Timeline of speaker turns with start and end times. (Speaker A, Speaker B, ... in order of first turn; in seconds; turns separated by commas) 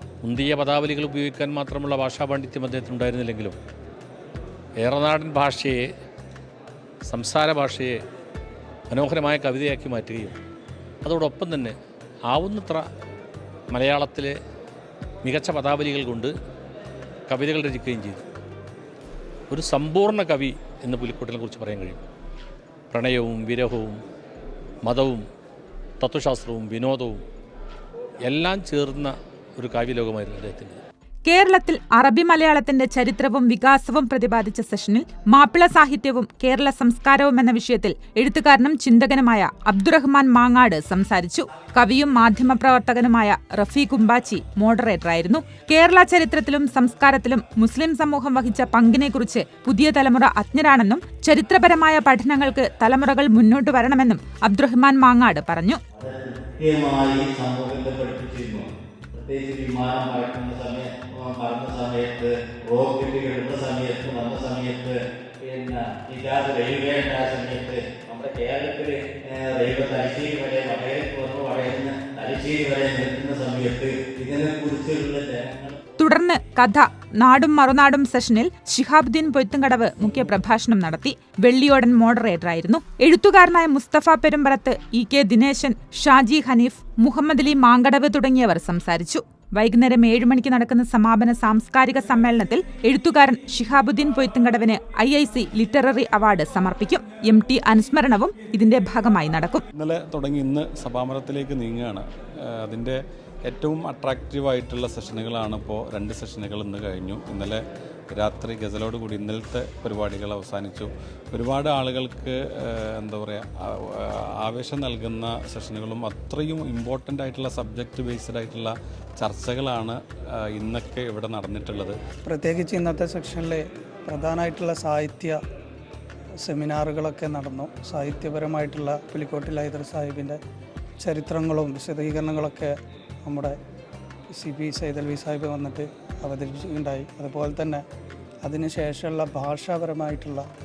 Speaker A: 0.2-3.6, Speaker A: 4.8-5.9, Speaker A: 7.1-8.0, Speaker A: 8.9-10.4, Speaker A: 11.0-11.8, Speaker A: 12.3-12.8, Speaker A: 13.7-14.3, Speaker A: 15.2-16.3, Speaker A: 17.3-18.3, Speaker A: 19.5-22.0, Speaker A: 22.9-24.0, Speaker A: 24.8-25.2, Speaker A: 26.0-27.2, Speaker A: 28.2-30.8, Speaker B: 31.2-55.8, Speaker C: 55.9-76.0, Speaker B: 76.0-99.6, Speaker D: 99.8-107.6, Speaker D: 108.1-122.0, Speaker E: 122.2-125.4, Speaker E: 126.4-130.4, Speaker E: 131.0-132.7, Speaker E: 133.2-133.5, Speaker E: 134.3-137.8, Speaker E: 138.4-140.4